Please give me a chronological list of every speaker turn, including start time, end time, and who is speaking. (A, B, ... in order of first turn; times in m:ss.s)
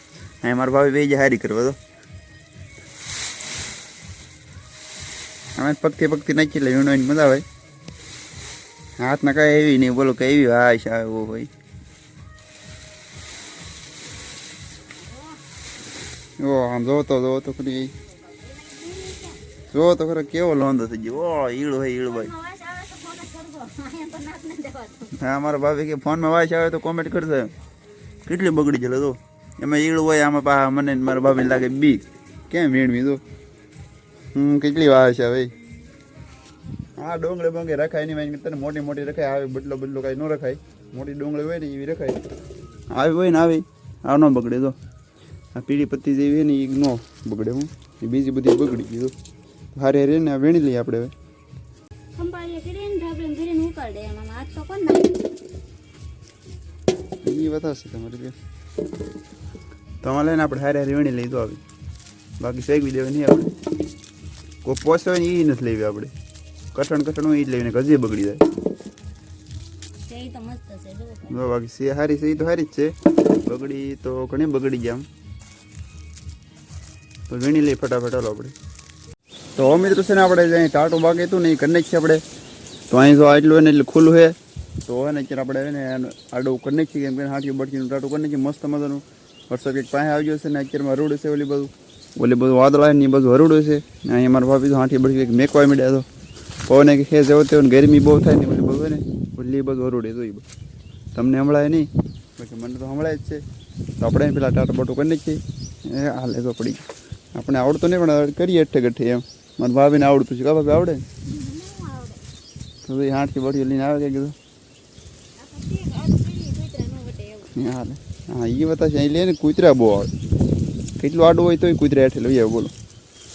0:00.4-0:01.8 A
0:05.6-0:07.4 A
0:09.0-0:11.5 A
0:16.4-0:17.9 A
0:18.2-0:19.4 B
0:19.7-0:22.3 A
0:22.0-0:25.1 B
0:25.2-0:27.5 A
0:28.2-0:33.2 A
0:34.3-0:35.5 A
0:37.0-0:42.2 A
0:42.9-0:44.8 A
0:45.6-0:49.1 A
0:49.7-0:51.1 A
0:52.2-0:55.2 B
0:57.2-0:58.3 A
1:00.0-1:01.6 A
1:02.4-1:03.5 A
1:04.6-1:06.1 A
1:06.7-1:08.4 A
1:10.0-1:11.4 B
1:11.3-1:15.1 A
1:17.3-1:18.5 A
1:19.6-1:22.2 A
1:22.9-1:36.0 A
1:36.7-1:40.4 A
1:41.1-1:43.4 A
1:44.0-1:46.8 A
1:47.4-1:51.0 A
1:51.3-1:52.2 B
1:52.8-1:54.3 A
1:55.4-1:57.5 B
1:57.5-2:00.1 A
2:01.0-2:02.7 A